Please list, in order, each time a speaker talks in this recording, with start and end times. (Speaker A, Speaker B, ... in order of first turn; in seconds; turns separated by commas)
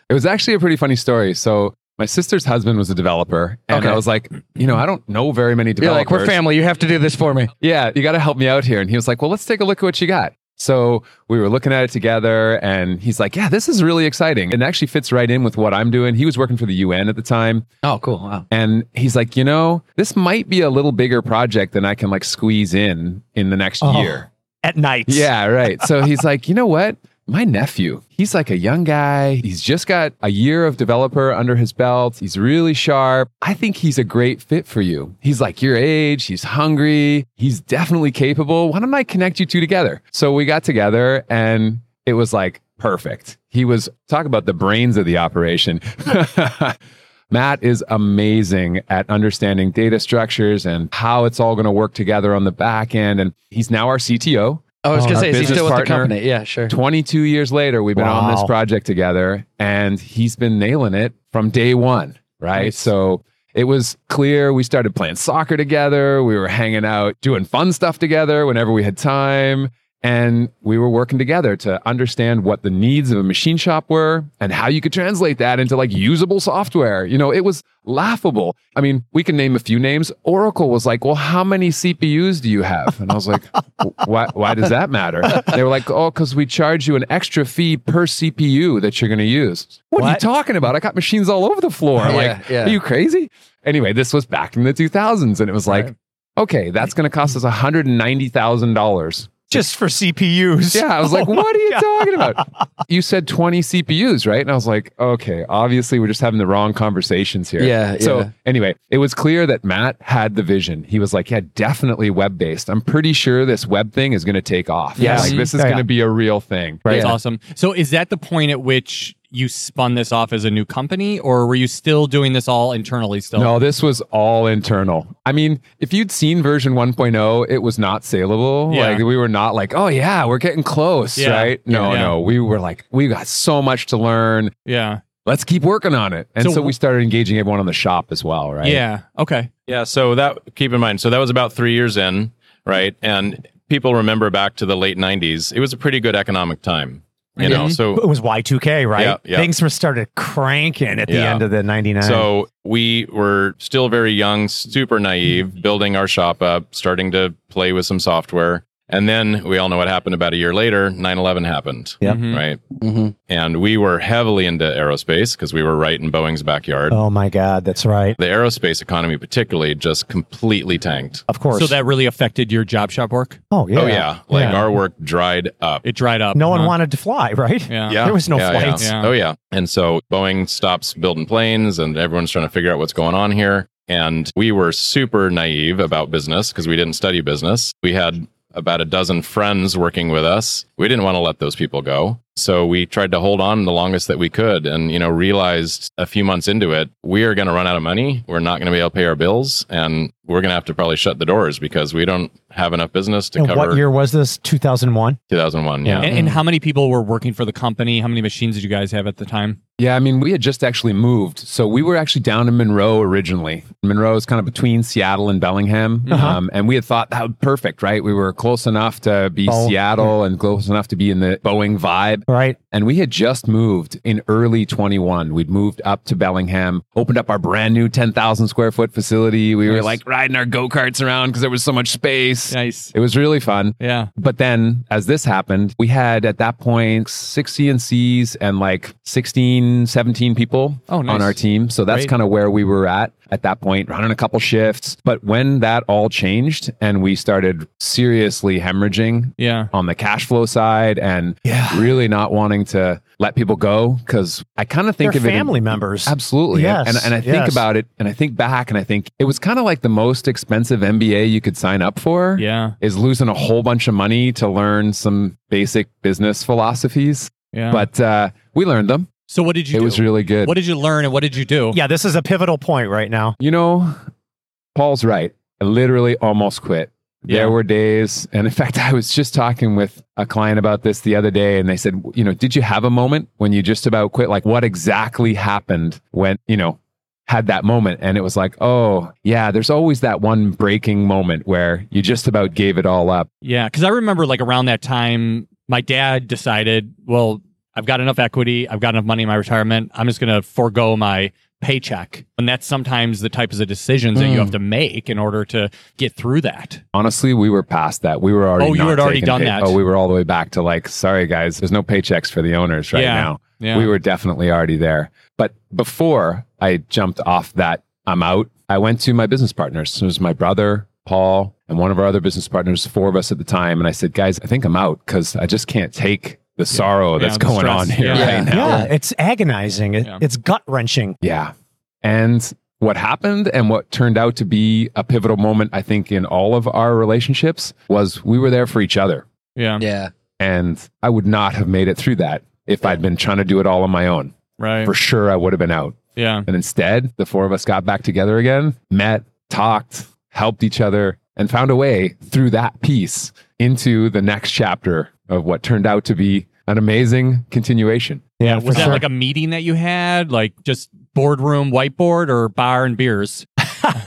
Speaker A: 0.1-6.4, Speaker B: 3.7-4.0, Speaker B: 5.8-7.5, Speaker A: 7.6-17.7, Speaker B: 17.8-18.4, Speaker A: 18.5-24.3, Speaker C: 23.8-25.9, Speaker A: 25.1-46.8, Speaker A: 47.3-56.2, Speaker B: 54.8-56.8, Speaker C: 54.9-55.7, Speaker D: 55.2-55.7, Speaker A: 56.7-99.6, Speaker C: 58.0-58.5, Speaker B: 92.0-92.8, Speaker C: 99.5-102.4, Speaker A: 100.7-117.0, Speaker B: 107.6-108.3, Speaker D: 115.0-115.5, Speaker C: 115.0-115.8, Speaker C: 116.9-117.1, Speaker D: 116.9-123.6, Speaker A: 123.3-134.5, Speaker D: 128.7-129.0, Speaker D: 131.2-132.2, Speaker D: 134.7-135.0, Speaker A: 135.2-138.8, Speaker D: 136.4-136.7, Speaker D: 138.6-139.5, Speaker E: 139.7-148.1, Speaker D: 147.4-147.8, Speaker C: 147.4-152.3, Speaker E: 148.9-149.5, Speaker E: 151.1-151.4, Speaker E: 152.0-162.6, Speaker D: 162.0-162.4, Speaker B: 162.8-163.1, Speaker E: 163.3-167.0, Speaker C: 166.9-168.2, Speaker E: 168.2-171.2, Speaker C: 171.3-171.8, Speaker D: 171.5-173.4, Speaker C: 173.5-174.6, Speaker E: 173.8-175.8, Speaker D: 175.8-176.8, Speaker C: 176.3-178.9, Speaker D: 177.7-178.0, Speaker E: 177.9-203.8, Speaker D: 178.6-179.1, Speaker C: 203.4-205.2, Speaker E: 205.3-206.1, Speaker D: 206.0-209.6, Speaker A: 209.8-269.1, Speaker D: 216.1-216.4, Speaker C: 216.1-216.4, Speaker C: 219.5-220.1, Speaker C: 222.3-222.6, Speaker D: 229.7-230.0, Speaker D: 232.5-232.9, Speaker D: 233.8-234.1, Speaker D: 240.9-241.4, Speaker D: 249.4-249.7, Speaker C: 251.5-251.9, Speaker C: 255.0-257.6, Speaker D: 262.4-262.8, Speaker D: 267.5-267.9, Speaker D: 269.3-271.8, Speaker A: 269.7-270.6, Speaker C: 271.7-273.4, Speaker A: 273.4-273.9, Speaker A: 274.8-293.3, Speaker D: 277.3-277.6, Speaker D: 293.4-306.8, Speaker B: 304.1-304.6, Speaker A: 306.9-328.9, Speaker D: 308.6-309.8, Speaker D: 312.9-313.9, Speaker D: 326.7-328.5, Speaker B: 328.1-328.9, Speaker C: 328.5-331.2, Speaker A: 331.2-339.2, Speaker D: 339.6-339.9, Speaker B: 339.8-340.1, Speaker A: 340.4-359.0, Speaker D: 344.6-344.9, Speaker D: 346.2-346.5, Speaker C: 358.4-359.1, Speaker D: 358.4-363.5